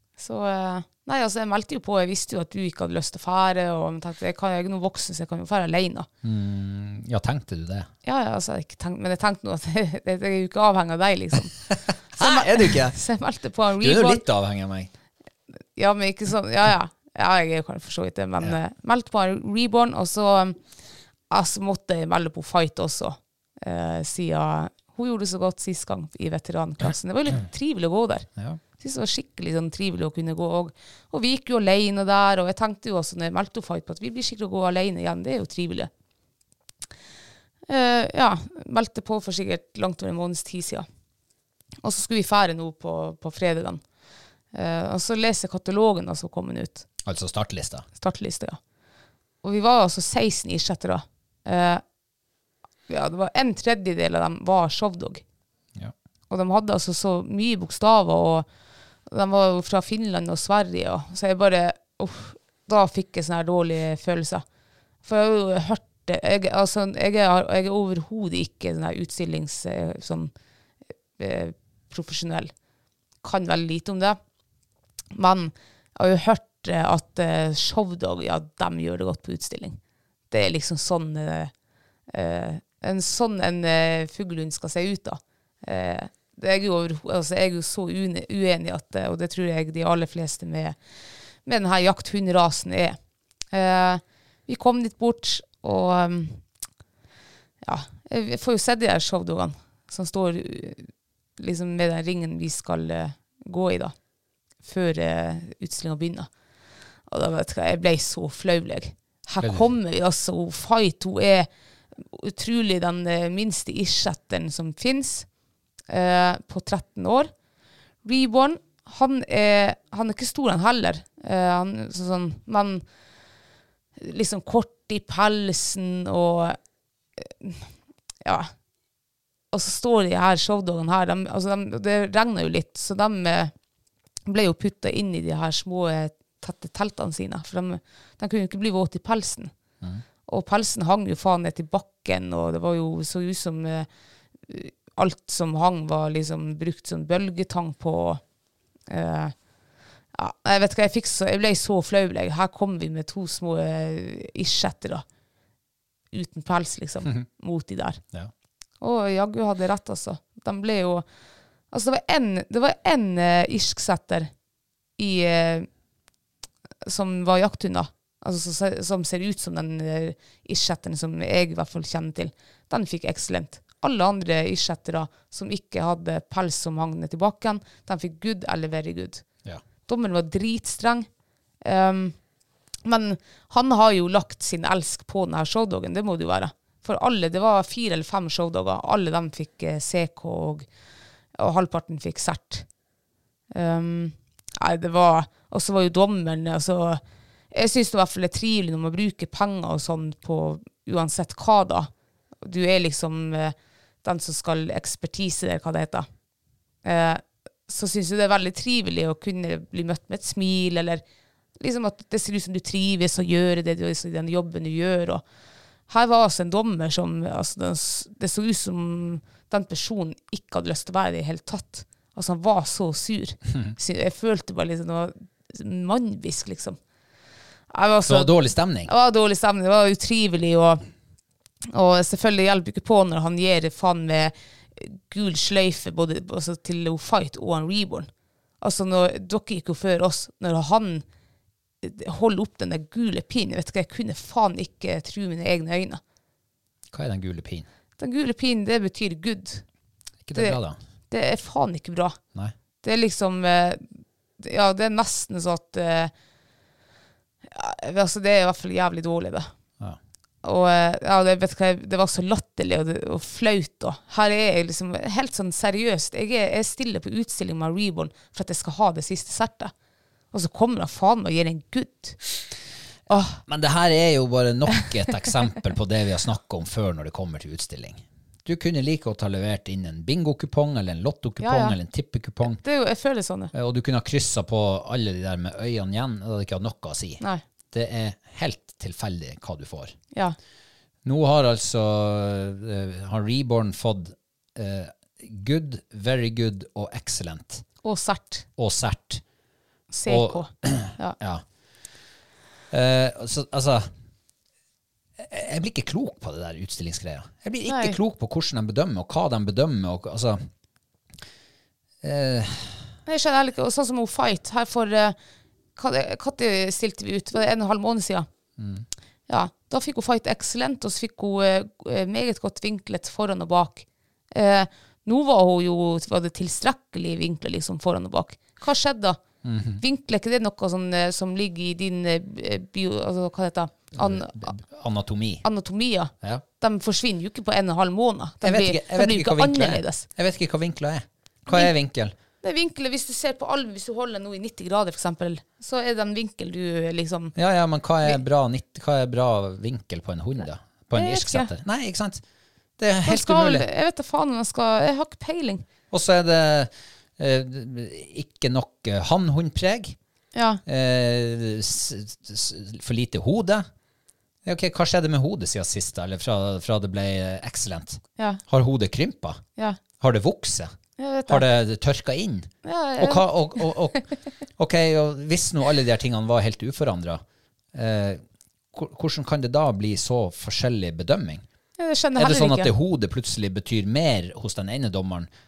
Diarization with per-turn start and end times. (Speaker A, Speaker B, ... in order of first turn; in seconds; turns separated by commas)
Speaker A: 0.2-6.1, Speaker B: 6.2-7.9, Speaker A: 8.0-11.6, Speaker B: 12.1-13.0, Speaker A: 12.1-14.2, Speaker B: 13.8-14.9, Speaker A: 15.8-20.6, Speaker A: 21.3-28.3, Speaker A: 28.8-35.9, Speaker A: 37.7-40.9, Speaker A: 41.8-43.8, Speaker A: 44.5-46.9, Speaker B: 47.0-47.9, Speaker A: 48.0-48.6, Speaker A: 49.4-51.8, Speaker A: 52.9-55.2, Speaker A: 56.3-58.5, Speaker A: 59.1-64.4, Speaker A: 65.0-70.3, Speaker A: 71.2-72.5, Speaker A: 73.2-74.2, Speaker A: 75.1-79.8, Speaker A: 80.3-81.5, Speaker A: 82.1-90.8, Speaker A: 91.4-93.0, Speaker A: 93.5-96.4, Speaker A: 97.6-103.9, Speaker A: 104.6-106.3, Speaker A: 107.1-115.3, Speaker B: 109.4-109.6, Speaker A: 115.9-117.3, Speaker A: 118.0-122.8, Speaker A: 124.0-126.6, Speaker A: 127.2-127.7, Speaker A: 128.2-128.5, Speaker A: 129.5-133.5, Speaker A: 134.2-139.5, Speaker A: 140.3-143.9, Speaker A: 144.5-148.2, Speaker A: 148.9-149.3, Speaker A: 150.1-155.0, Speaker A: 156.1-158.0, Speaker A: 158.8-161.0, Speaker A: 161.7-164.3, Speaker A: 165.0-165.7, Speaker A: 166.8-179.2, Speaker A: 179.9-181.1, Speaker A: 181.6-182.2, Speaker A: 182.8-190.7, Speaker A: 191.4-192.6, Speaker A: 193.5-197.0, Speaker A: 197.5-201.9, Speaker A: 202.4-206.1, Speaker A: 206.8-211.0, Speaker A: 211.6-215.2, Speaker A: 215.9-226.8, Speaker A: 227.7-228.3, Speaker B: 228.0-228.9, Speaker A: 228.8-230.8, Speaker A: 231.7-238.1, Speaker A: 238.6-241.0, Speaker A: 241.8-246.0, Speaker B: 246.9-247.7, Speaker A: 248.0-249.6, Speaker B: 250.2-250.8, Speaker A: 250.3-252.2, Speaker A: 252.8-256.1, Speaker A: 257.5-259.5, Speaker A: 260.4-269.7, Speaker A: 270.3-272.2, Speaker A: 273.1-273.4, Speaker B: 273.4-282.6, Speaker A: 281.4-281.8, Speaker A: 282.6-283.5, Speaker B: 283.5-289.9, Speaker B: 291.0-297.6, Speaker A: 297.8-298.4, Speaker B: 298.6-299.2, Speaker A: 299.9-301.1, Speaker B: 300.1-301.4, Speaker B: 302.7-303.9, Speaker B: 305.2-310.4, Speaker A: 307.7-308.0, Speaker B: 312.0-312.9, Speaker A: 313.1-315.1, Speaker A: 315.8-318.3, Speaker B: 318.6-318.9, Speaker A: 319.3-329.2, Speaker B: 329.4-329.8, Speaker A: 329.8-334.5, Speaker B: 333.9-335.4, Speaker A: 335.4-340.1, Speaker B: 338.4-342.1, Speaker A: 342.4-347.3, Speaker B: 347.3-352.2, Speaker A: 350.9-351.5, Speaker B: 352.8-353.6, Speaker A: 353.0-355.6, Speaker B: 355.9-360.0, Speaker A: 360.3-360.6, Speaker B: 360.6-363.7, Speaker B: 364.4-369.4, Speaker B: 370.0-370.7, Speaker A: 371.0-371.4, Speaker B: 371.3-374.0, Speaker A: 372.6-374.0, Speaker B: 374.6-381.4, Speaker A: 381.8-382.7, Speaker B: 382.1-385.3